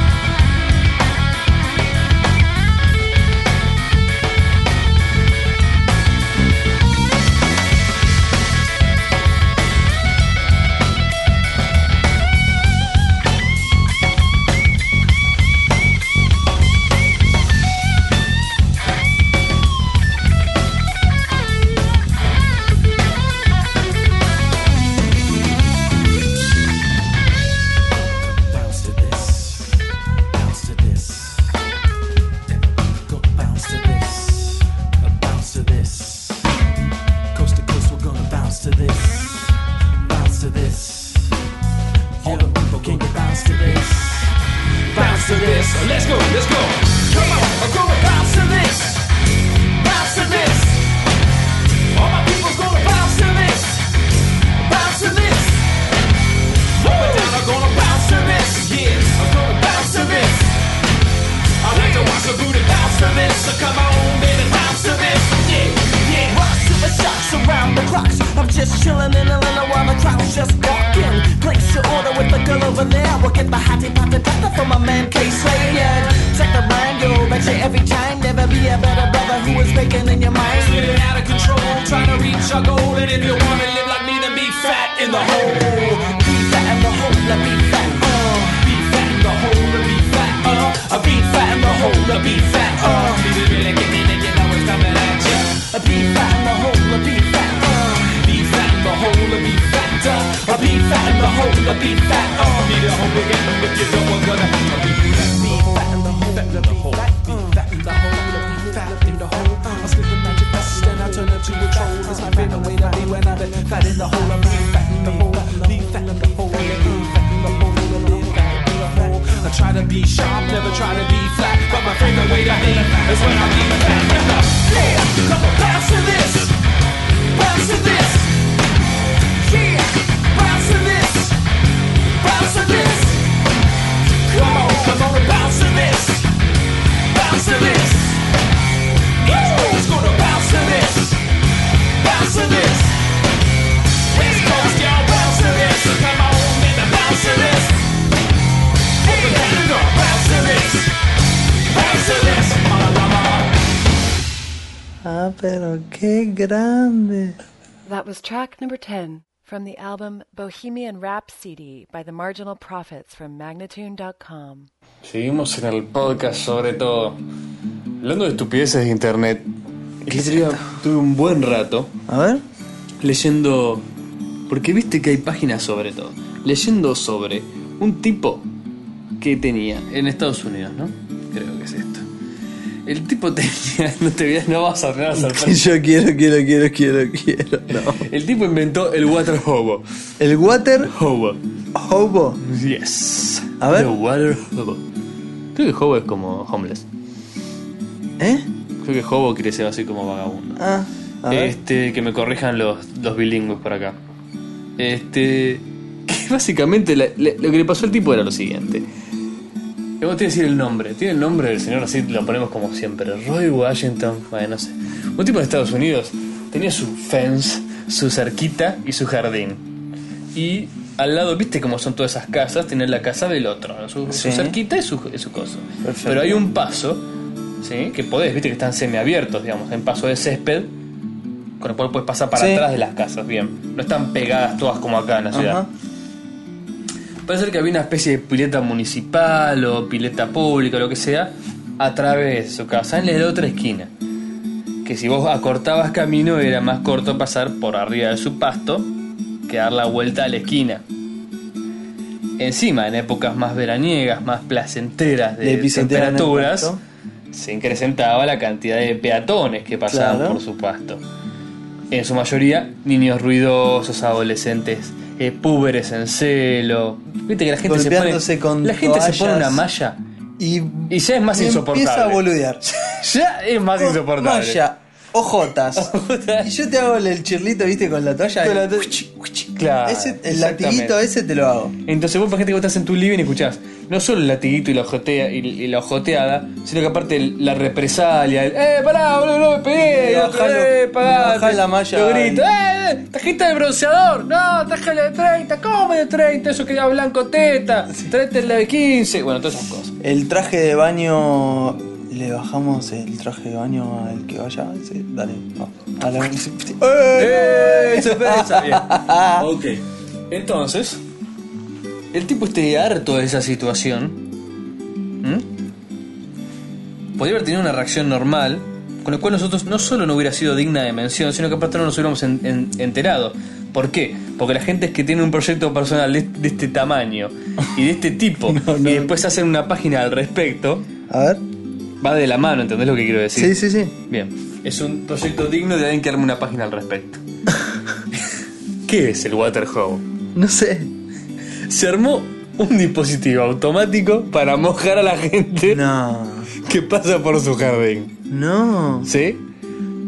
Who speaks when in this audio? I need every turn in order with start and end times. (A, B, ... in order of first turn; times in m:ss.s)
0:28.4-0:29.7 A
0:30.3-0:31.4 A
0:33.1-0:36.4 A
0:37.3-0:39.0 B
0:37.9-0:39.4 A
0:40.0-0:41.2 A
0:42.2-0:44.0 B
0:42.2-0:44.2 A
0:44.9-0:45.9 A
0:44.9-0:49.1 B
0:47.1-0:47.5 A
0:49.7-0:50.8 B
0:51.9-0:53.9 B
0:54.6-0:55.7 B
0:56.8-1:00.5 B
0:56.8-0:57.4 A
1:01.6-1:06.4 B
1:01.8-1:02.2 A
1:06.2-1:21.0 A
1:20.5-1:26.0 B
1:25.1-1:28.6 A
1:28.5-1:35.6 B
1:31.2-1:33.2 A
1:35.5-1:38.1 A
1:38.0-2:06.5 B
1:41.7-1:42.7 A
1:45.3-1:47.6 A
1:48.6-1:48.9 A
1:49.6-1:49.9 A
1:52.2-1:52.8 A
1:55.2-1:55.6 A
2:04.7-2:05.1 A
2:07.3-2:08.4 B
2:09.4-2:11.4 B
2:12.2-2:13.2 B
2:14.3-2:16.3 B
2:17.1-2:18.2 B
2:19.2-2:21.2 B
2:22.0-2:23.0 B
2:24.1-2:27.8 B
2:29.0-2:30.9 B
2:31.7-2:33.5 B
2:35.0-2:37.4 C
2:37.8-2:44.7 D
2:45.0-2:47.2 E
2:48.0-2:49.5 E
2:50.0-2:51.9 E
2:50.1-2:50.5 C
2:52.1-2:52.4 C
2:53.0-2:53.8 E
2:54.5-2:58.5 E
2:59.2-3:02.0 E
3:02.8-3:05.8 E
3:05.1-3:08.0 C
3:07.7-3:09.8 E
3:10.2-3:10.9 C
3:10.8-3:11.4 E
3:11.7-3:12.4 C
3:12.4-3:14.8 E
3:13.6-3:13.9 C
3:15.5-3:16.8 E
3:18.2-3:18.4 C
3:18.8-3:20.6 E
3:20.6-3:21.5 C
3:21.3-3:24.0 E
3:24.8-3:28.9 E
3:30.0-3:39.7 E
3:40.3-3:47.0 E
3:44.1-3:44.6 C
3:45.8-3:46.4 C
3:47.6-3:50.7 E
3:51.6-3:55.6 E
3:52.3-3:52.6 C
3:55.3-3:55.7 C
3:57.2-4:03.9 E
4:04.8-4:08.9 E
4:09.5-4:10.8 E
4:12.4-4:16.7 E
4:15.4-4:16.8 C
4:17.3-4:21.0 E
4:19.9-4:20.4 C
4:21.9-4:30.0 E
4:27.6-4:29.6 C
4:30.4-4:32.6 C
4:30.9-4:34.6 E
4:33.8-4:39.0 C
4:35.7-4:36.5 E
4:38.4-4:41.0 E
4:39.8-4:41.7 C
4:41.8-5:00.0 E
4:49.7-4:52.4 C
5:00.0-5:09.5 C
5:07.1-5:11.0 E
5:12.1-5:14.2 E
5:15.2-5:15.5 E
5:17.2-5:30.8 E
5:28.5-5:29.1 C
5:31.1-5:31.4 C
5:32.0-5:37.2 E
5:33.4-5:33.9 C
5:38.8-5:40.0 E
5:40.3-5:40.9 C
5:41.7-5:45.8 E
5:45.6-5:46.5 C
5:46.6-5:48.1 E
5:48.3-5:49.1 C
5:49.0-5:49.4 E